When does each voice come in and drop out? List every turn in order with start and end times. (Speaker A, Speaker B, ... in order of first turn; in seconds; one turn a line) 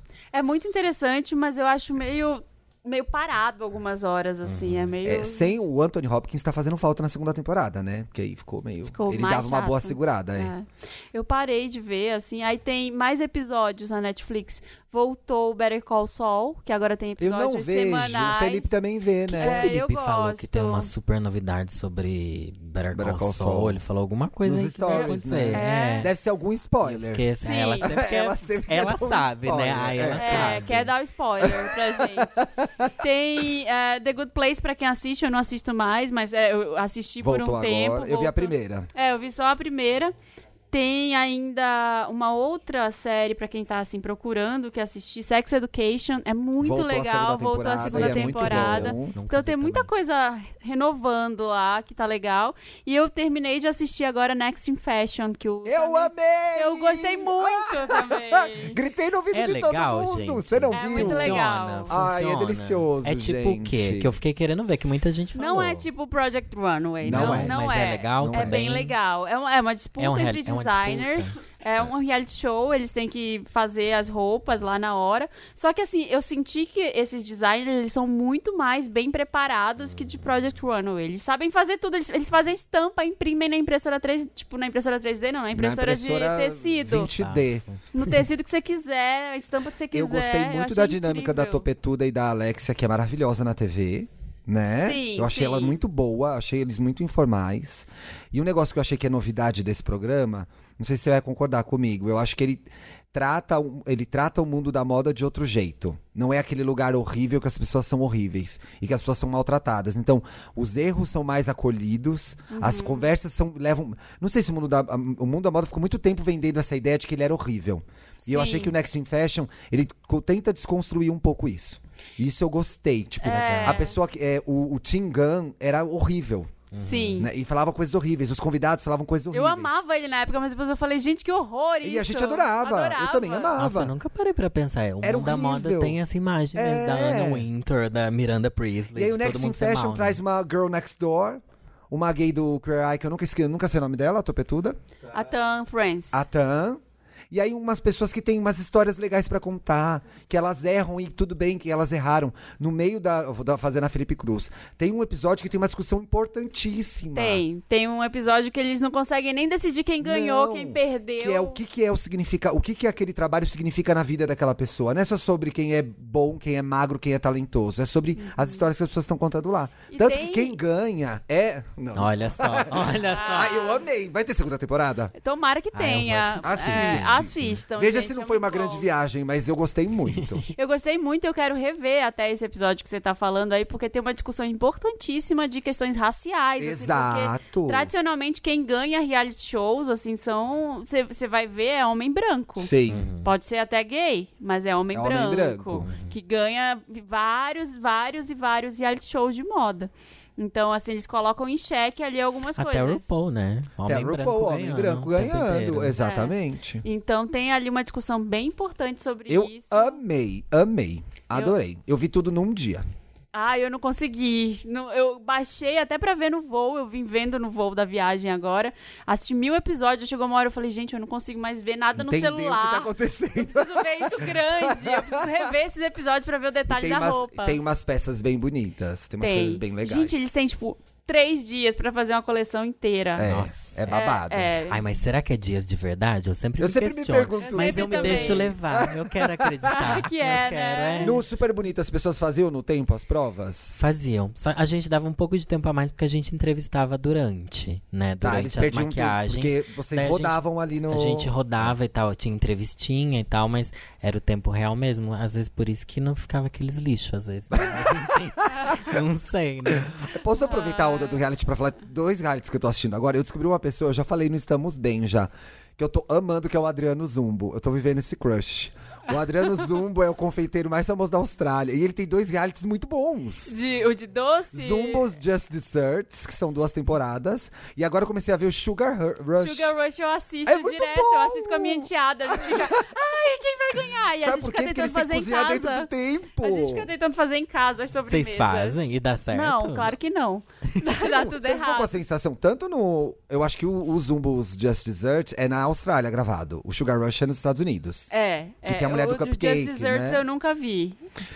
Speaker A: 0.3-5.5
Speaker B: 4.4-4.9
Speaker C: 5.0-10.5
Speaker A: 8.9-18.7
Speaker C: 17.2-19.7
Speaker A: 19.3-20.9
Speaker B: 19.4-26.1
Speaker C: 22.9-23.8
Speaker C: 24.4-27.3
Speaker A: 24.9-26.1
Speaker B: 26.8-30.9
Speaker A: 27.4-27.9
Speaker C: 27.8-30.6
Speaker A: 30.2-40.1
Speaker C: 31.4-32.9
Speaker C: 37.2-38.9
Speaker A: 40.7-58.8
Speaker C: 46.6-49.1
Speaker B: 47.8-49.9
Speaker C: 55.6-64.1
Speaker B: 59.3-65.9
Speaker A: 60.7-62.0
Speaker A: 65.3-87.1
Speaker C: 67.0-67.6
Speaker B: 67.0-68.9
Speaker C: 68.2-68.7
Speaker B: 70.0-71.4
Speaker C: 85.5-87.6
Speaker B: 87.2-87.8
Speaker A: 87.9-91.7
Speaker C: 89.9-126.5
Speaker A: 94.8-95.8
Speaker A: 112.5-113.0
Speaker A: 118.2-118.7
Speaker A: 123.2-123.9
Speaker B: 123.3-123.8
Speaker B: 126.7-127.3
Speaker A: 126.8-127.3
Speaker C: 127.2-129.8
Speaker A: 129.3-133.5
Speaker C: 131.8-133.9
Speaker B: 133.6-140.2
Speaker C: 135.0-136.0
Speaker C: 136.5-137.5
Speaker C: 138.9-144.8
Speaker A: 145.1-146.2
Speaker C: 146.1-157.4
Speaker A: 157.1-161.6
Speaker C: 160.0-175.1
Speaker A: 168.2-168.6
Speaker A: 169.9-170.6
Speaker B: 171.9-173.6
Speaker A: 173.1-173.8
Speaker A: 175.2-178.9
Speaker B: 175.7-177.5
Speaker C: 176.4-180.4
Speaker B: 180.1-180.4
Speaker A: 180.5-192.7
Speaker C: 186.6-187.9
Speaker C: 192.6-193.1
Speaker B: 192.9-193.3
Speaker A: 193.2-203.1
Speaker C: 194.9-195.9
Speaker B: 195.8-196.1
Speaker B: 202.6-205.9
Speaker C: 203.8-206.8
Speaker A: 206.0-210.0
Speaker C: 209.3-212.8
Speaker A: 213.3-227.6
Speaker C: 221.9-225.5
Speaker C: 226.7-230.4
Speaker A: 229.2-233.3
Speaker C: 233.2-234.5
Speaker B: 233.3-233.9
Speaker A: 233.9-234.8
Speaker B: 234.7-241.2
Speaker C: 236.6-240.0
Speaker A: 237.4-238.5
Speaker A: 239.7-241.2
Speaker C: 241.0-243.8
Speaker B: 243.8-260.1
Speaker C: 248.2-251.7
Speaker C: 257.5-258.9
Speaker C: 260.1-273.5
Speaker A: 260.4-261.2
Speaker A: 273.4-275.1
Speaker C: 274.5-279.7
Speaker A: 279.4-291.9
Speaker C: 280.4-282.8
Speaker C: 284.2-286.9
Speaker B: 288.1-289.9
Speaker C: 291.0-298.1
Speaker A: 298.1-301.0
Speaker C: 298.6-300.2